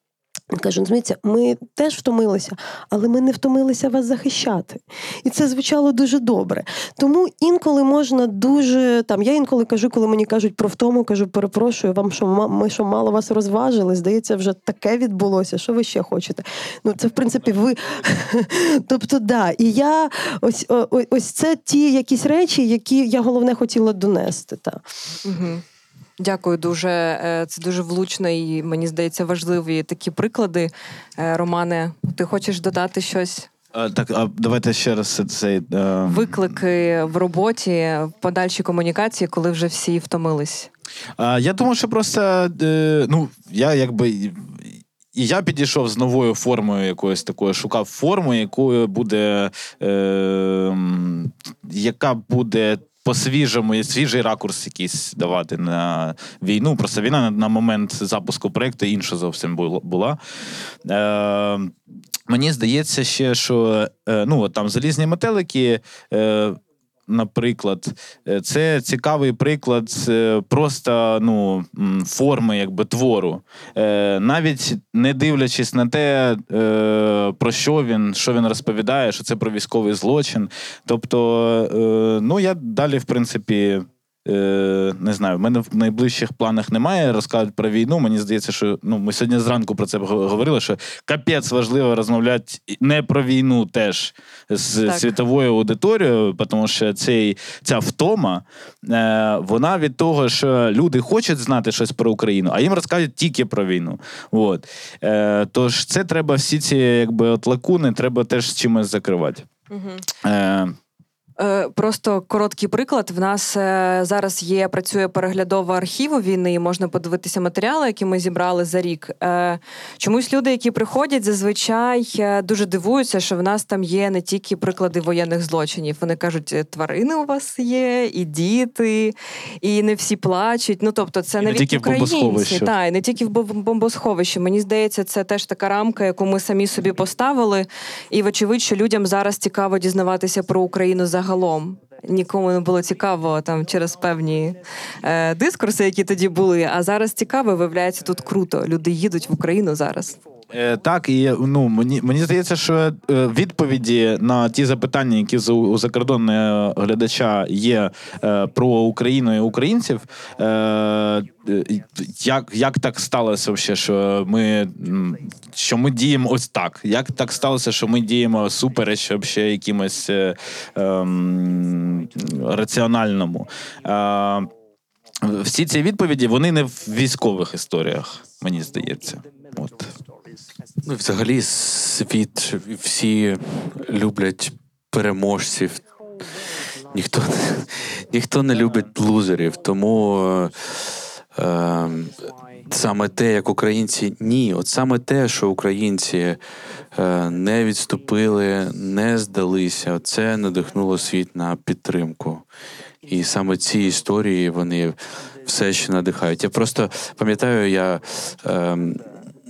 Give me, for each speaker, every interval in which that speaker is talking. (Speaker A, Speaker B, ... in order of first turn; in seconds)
Speaker A: 0.5-24.8
Speaker B: 25.2-25.6, 26.2-33.5, 36.0-40.7, 94.8-95.1, 109.7-110.0, 111.4-150.2
Speaker C: 33.7-36.4, 41.2-60.2, 60.8-61.7, 62.3-109.5, 110.2-110.8, 131.4-132.7, 150.5-174.5, 175.2-179.9
Speaker D: 180.8-185.8, 186.9-196.4, 196.9-202.4, 203.1-209.1